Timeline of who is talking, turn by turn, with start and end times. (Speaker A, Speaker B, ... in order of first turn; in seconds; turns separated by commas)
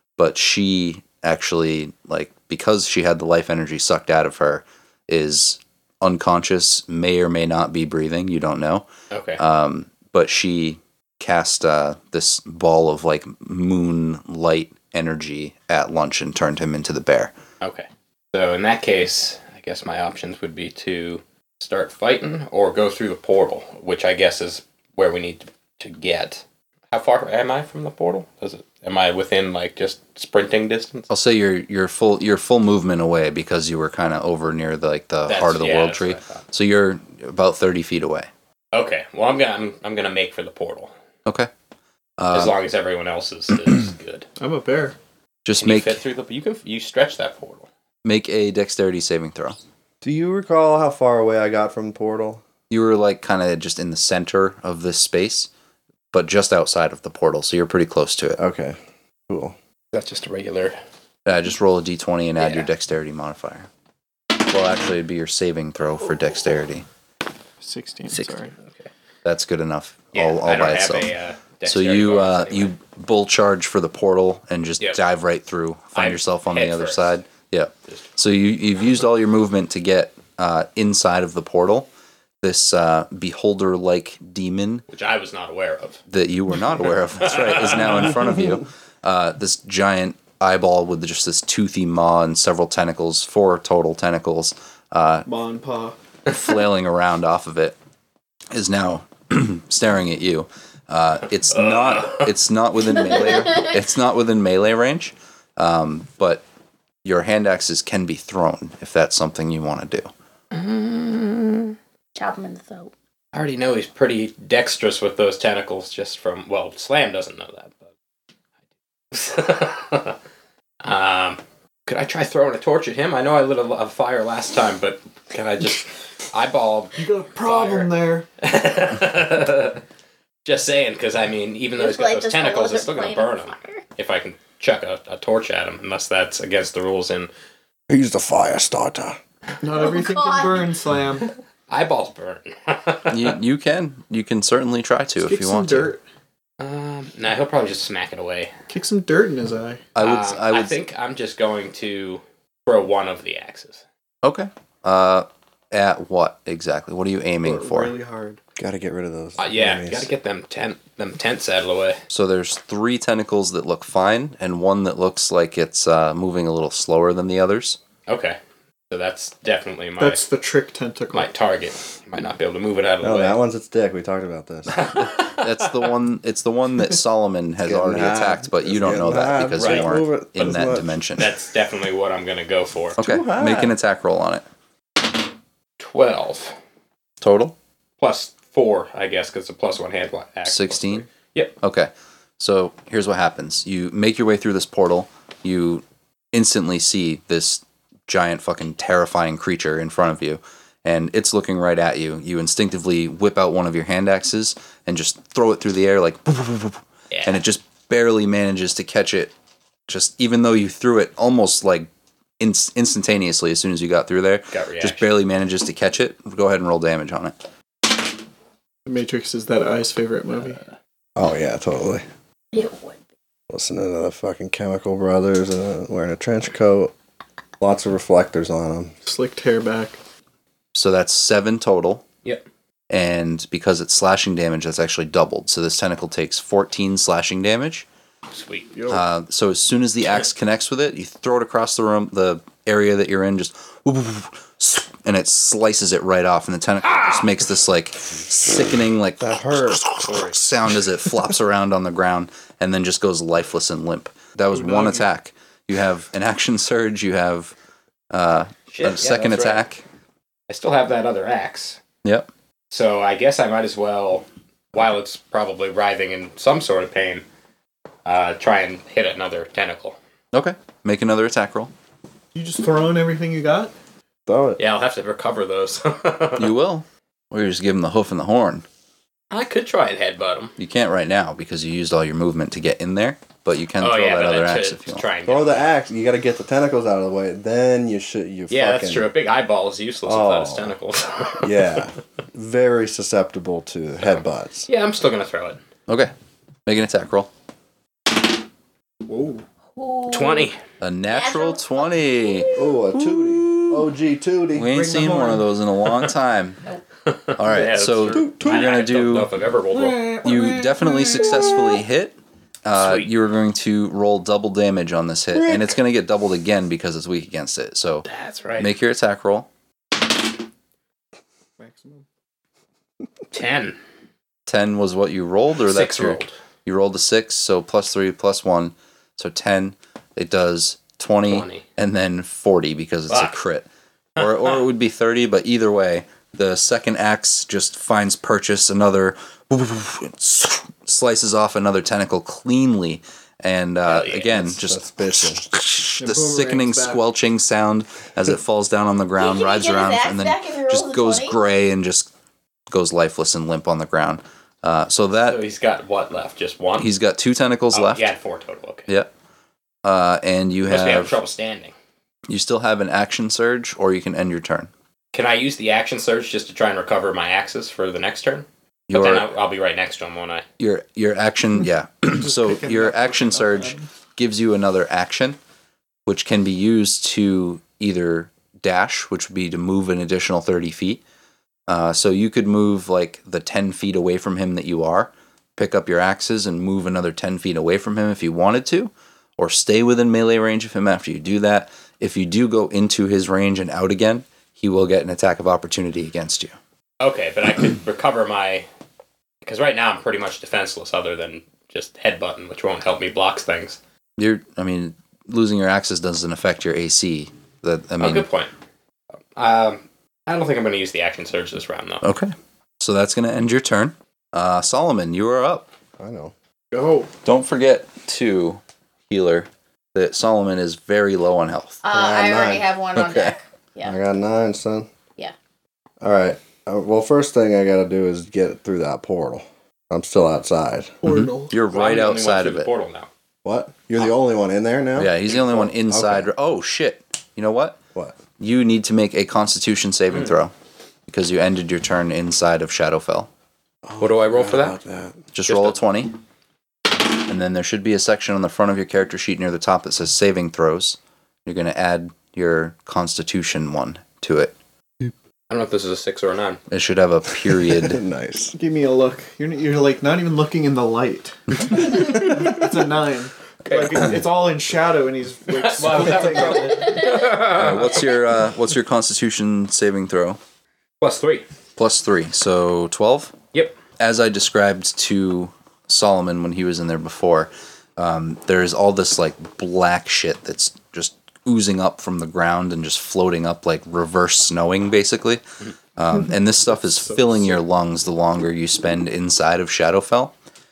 Speaker A: 0.2-8.9, Speaker B: 9.1-9.4, Speaker A: 9.4-17.3, Speaker B: 17.6-31.1, Speaker A: 31.1-38.3, Speaker B: 35.3-36.4, Speaker B: 38.7-40.9, Speaker A: 42.2-42.5, Speaker B: 42.3-44.3, Speaker C: 44.4-45.0, Speaker A: 45.5-46.0, Speaker B: 45.6-47.7, Speaker A: 48.0-49.6, Speaker D: 50.0-52.4, Speaker A: 52.7-55.5, Speaker A: 56.1-58.4, Speaker D: 58.4-59.6, Speaker B: 59.9-60.8, Speaker A: 61.3-63.7, Speaker B: 62.4-62.7, Speaker A: 64.3-66.9, Speaker C: 67.6-68.5, Speaker B: 68.6-68.9, Speaker A: 69.2-71.1, Speaker B: 70.1-72.7, Speaker A: 71.7-81.9, Speaker B: 76.0-77.0, Speaker A: 82.4-84.8, Speaker B: 84.9-86.0, Speaker A: 86.1-95.3, Speaker B: 87.2-88.4, Speaker C: 95.3-96.0, Speaker A: 96.3-97.8, Speaker A: 98.5-106.4, Speaker B: 101.5-102.3, Speaker E: 102.9-103.7, Speaker A: 107.0-110.1, Speaker B: 110.5-111.8, Speaker E: 112.2-112.9, Speaker B: 113.3-117.9, Speaker B: 119.1-120.2, Speaker B: 120.8-129.8, Speaker C: 127.0-128.3, Speaker B: 130.4-137.3, Speaker E: 131.8-133.8, Speaker D: 137.9-139.2, Speaker C: 139.6-141.3, Speaker E: 139.8-140.6, Speaker B: 141.7-143.4, Speaker A: 143.1-145.9, Speaker C: 145.2-146.0, Speaker B: 146.6-148.5, Speaker C: 148.7-149.8, Speaker A: 149.9-150.8, Speaker B: 150.0-153.8, Speaker A: 154.2-157.9, Speaker C: 157.4-158.4, Speaker D: 158.6-160.1, Speaker B: 159.4-162.0, Speaker A: 162.1-167.8, Speaker B: 168.1-168.4, Speaker B: 168.9-170.2, Speaker C: 170.0-171.3, Speaker B: 171.1-173.4, Speaker D: 173.0-174.8, Speaker B: 174.7-175.9, Speaker A: 174.8-181.3, Speaker D: 177.7-181.0, Speaker B: 179.6-179.9, Speaker B: 181.2-183.0, Speaker D: 183.0-183.7, Speaker A: 183.0-184.4, Speaker B: 185.8-186.6, Speaker A: 187.2-187.5, Speaker B: 188.0-191.6, Speaker A: 190.4-191.1, Speaker A: 191.6-209.3, Speaker B: 207.1-207.4, Speaker A: 209.9-217.4, Speaker B: 214.5-215.1, Speaker C: 218.9-220.6, Speaker D: 221.2-222.1, Speaker E: 222.5-223.0, Speaker D: 223.5-226.9, Speaker D: 227.6-228.9, Speaker C: 229.0-230.0, Speaker A: 230.7-232.1, Speaker A: 232.9-237.9, Speaker B: 238.3-238.7, Speaker C: 238.7-239.0, Speaker A: 238.9-257.5, Speaker D: 249.2-249.8, Speaker B: 250.0-250.4, Speaker C: 254.5-255.1, Speaker A: 258.1-259.8, Speaker B: 258.7-259.6, Speaker B: 260.5-261.8, Speaker A: 262.0-262.3, Speaker B: 262.7-267.2, Speaker B: 268.1-270.0, Speaker A: 270.3-271.7, Speaker C: 272.4-273.7, Speaker D: 274.3-274.6, Speaker B: 274.6-276.5, Speaker A: 276.4-278.6, Speaker B: 279.3-280.5, Speaker A: 280.6-285.1, Speaker B: 283.8-285.7, Speaker D: 285.3-289.1, Speaker B: 288.5-291.8, Speaker D: 290.1-290.8, Speaker D: 291.4-294.7, Speaker B: 294.1-295.6, Speaker A: 296.7-297.3, Speaker C: 299.1-299.4, Speaker E: 299.8-300.5, Speaker B: 300.1-300.6, Speaker A: 300.8-303.8, Speaker E: 301.1-302.6, Speaker D: 302.6-304.7, Speaker A: 304.5-306.6, Speaker C: 304.7-305.5, Speaker B: 307.1-310.2, Speaker A: 307.4-309.3, Speaker D: 308.1-308.6, Speaker C: 309.7-311.8, Speaker A: 310.2-319.5, Speaker B: 312.8-313.1, Speaker B: 318.1-318.7, Speaker C: 321.6-322.0, Speaker B: 323.3-323.8, Speaker A: 324.5-352.1, Speaker B: 325.6-326.3, Speaker B: 331.3-331.6, Speaker B: 334.2-334.6, Speaker B: 343.9-344.3, Speaker D: 344.3-345.4, Speaker C: 346.0-347.0, Speaker E: 349.2-351.4, Speaker A: 352.7-355.4, Speaker B: 355.2-356.9, Speaker A: 356.8-358.1, Speaker B: 357.7-358.9, Speaker A: 359.8-361.2, Speaker B: 360.7-361.7, Speaker A: 362.3-364.7, Speaker B: 365.1-370.5, Speaker A: 368.9-369.3, Speaker A: 370.6-375.4, Speaker C: 372.1-373.9, Speaker A: 376.1-381.0, Speaker A: 381.7-396.6, Speaker B: 397.0-398.7, Speaker B: 399.4-403.8, Speaker A: 404.2-408.3, Speaker B: 408.0-408.5, Speaker B: 409.3-412.0, Speaker A: 412.0-415.7, Speaker D: 416.0-416.3, Speaker C: 416.7-417.1, Speaker A: 417.2-421.8, Speaker E: 421.8-423.9, Speaker D: 421.9-422.7, Speaker A: 422.9-423.4, Speaker D: 423.8-424.9, Speaker D: 426.0-431.0, Speaker C: 431.0-431.6, Speaker A: 431.0-432.7, Speaker B: 431.7-433.1, Speaker D: 433.4-436.3, Speaker A: 435.0-437.8, Speaker A: 438.4-440.5, Speaker A: 441.1-443.3, Speaker D: 443.8-445.2, Speaker B: 444.0-444.8, Speaker A: 445.3-446.1, Speaker B: 445.5-445.8, Speaker A: 447.2-454.6, Speaker B: 455.5-456.6, Speaker A: 456.7-458.0, Speaker D: 457.5-458.6, Speaker C: 458.6-467.0, Speaker B: 463.6-464.1, Speaker B: 465.5-468.1, Speaker E: 466.8-467.3, Speaker A: 467.4-470.4, Speaker B: 471.0-471.5, Speaker A: 471.8-473.4, Speaker A: 474.0-485.4, Speaker A: 486.0-490.3, Speaker C: 487.0-487.6